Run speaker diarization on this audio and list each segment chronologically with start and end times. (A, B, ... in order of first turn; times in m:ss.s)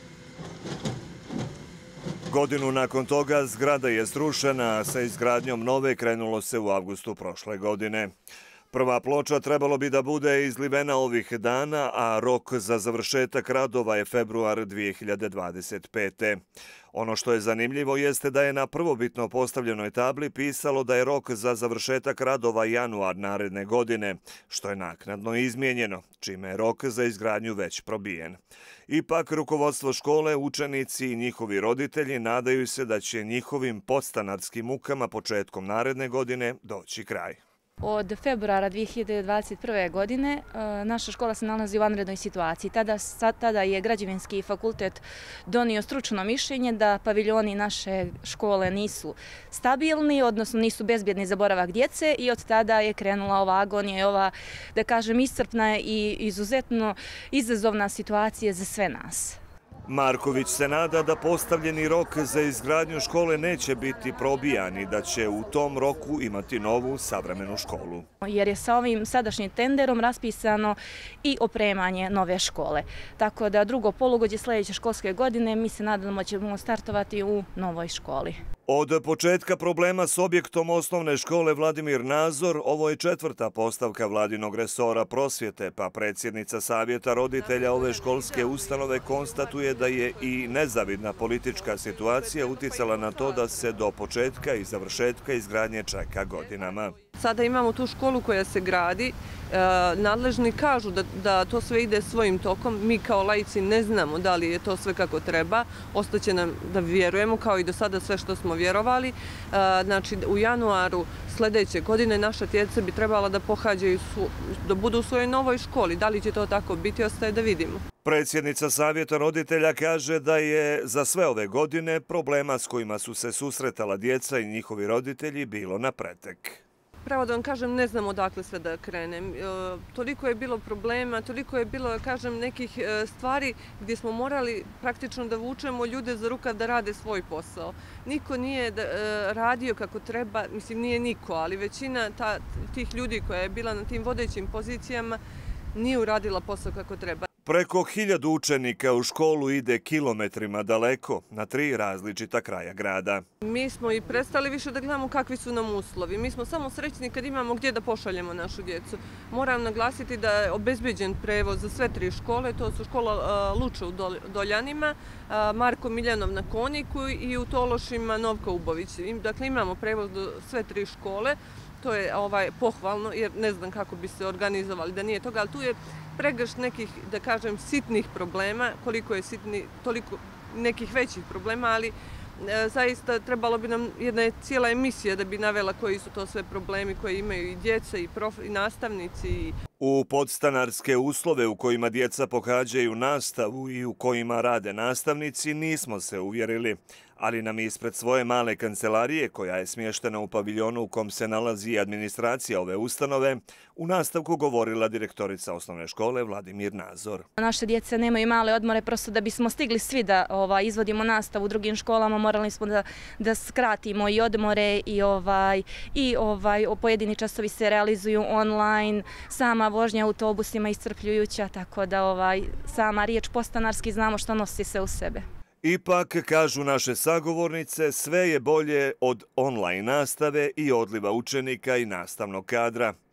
0:02.3-0:08.1 A
0:08.7-0:16.4 A
0:16.9-0:37.4 A
0:37.8-0:59.4 B
0:59.8-1:08.0 A
1:08.2-1:18.4 B
1:18.7-1:36.9 A
1:27.3-1:33.8 C
1:36.4-1:57.8 C
1:58.0-2:06.6 A
2:07.0-2:25.2 C
2:25.7-2:27.3 C
2:27.4-2:33.2 A
2:33.4-3:09.6 C
3:09.8-3:27.3 A
3:27.4-3:45.2 B
3:45.6-3:52.9 A